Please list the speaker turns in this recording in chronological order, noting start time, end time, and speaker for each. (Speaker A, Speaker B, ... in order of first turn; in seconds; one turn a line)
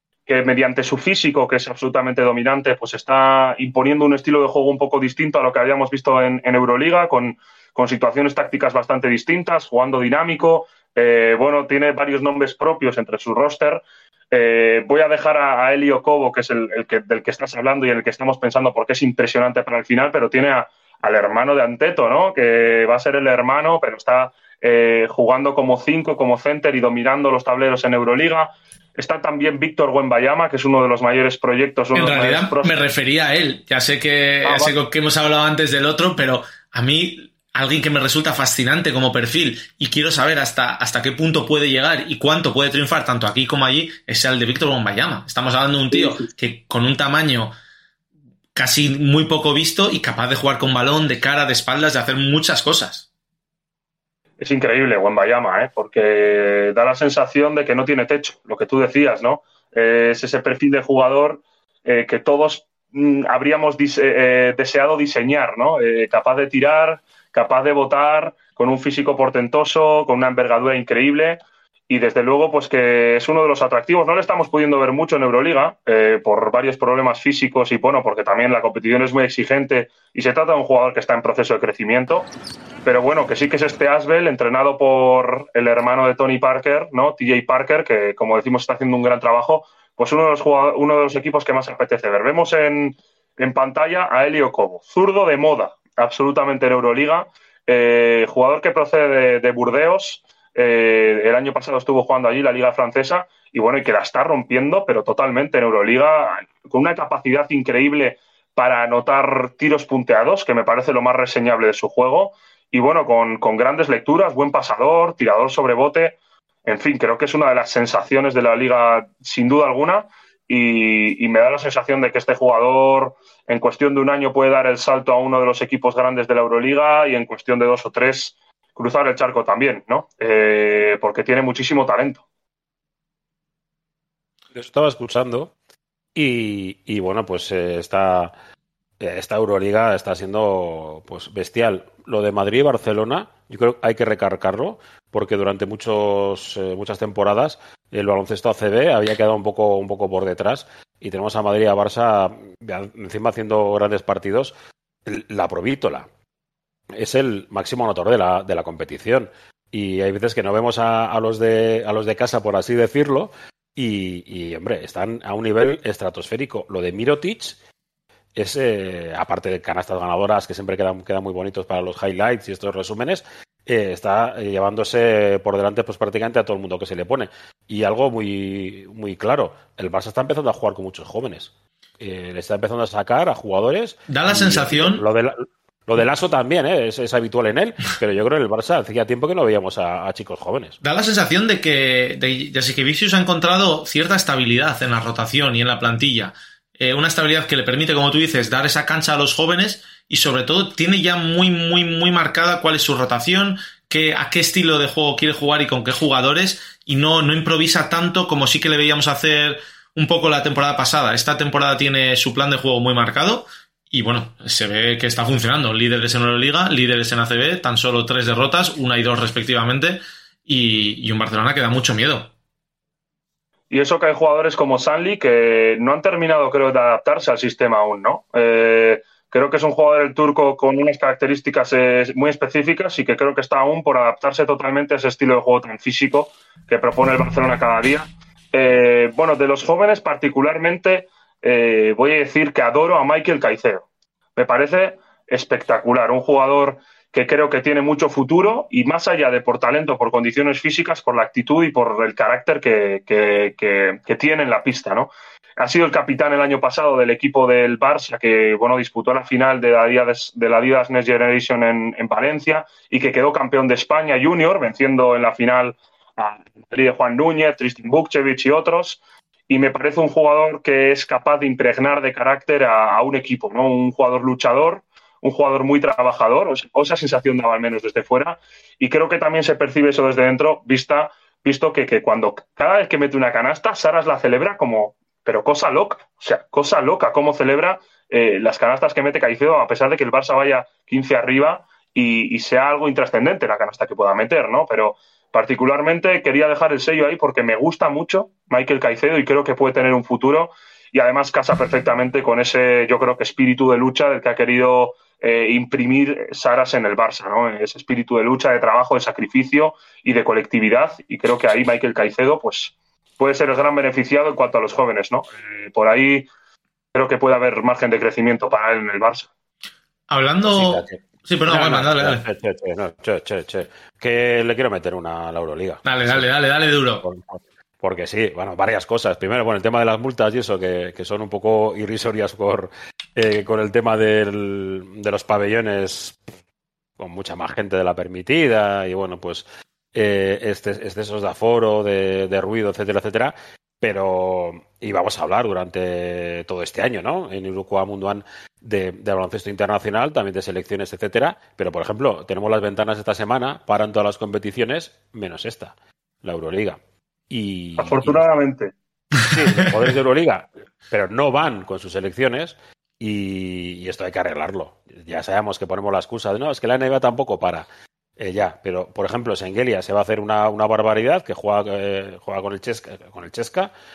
Speaker A: 0.3-32.8
Speaker B: 31.9-47.5
Speaker A: 34.4-34.8
Speaker A: 45.9-46.3
Speaker B: 48.5-53.1
Speaker A: 54.4-82.3
Speaker A: 82.8-132.2
Speaker C: 134.5-135.5
Speaker C: 136.2-138.3
Speaker C: 139.0-154.5
Speaker C: 155.1-156.1
Speaker C: 156.9-167.6
Speaker C: 168.4-190.8
Speaker B: 184.1-185.0
Speaker B: 190.8-222.3
Speaker A: 223.7-316.3
Speaker A: 316.9-319.3
Speaker B: 320.1-322.2
Speaker C: 320.4-326.3
Speaker B: 325.9-327.1
Speaker C: 327.0-336.2
Speaker C: 337.0-356.8
Speaker C: 357.3-358.2
Speaker A: 357.8-358.7
Speaker C: 359.3-373.7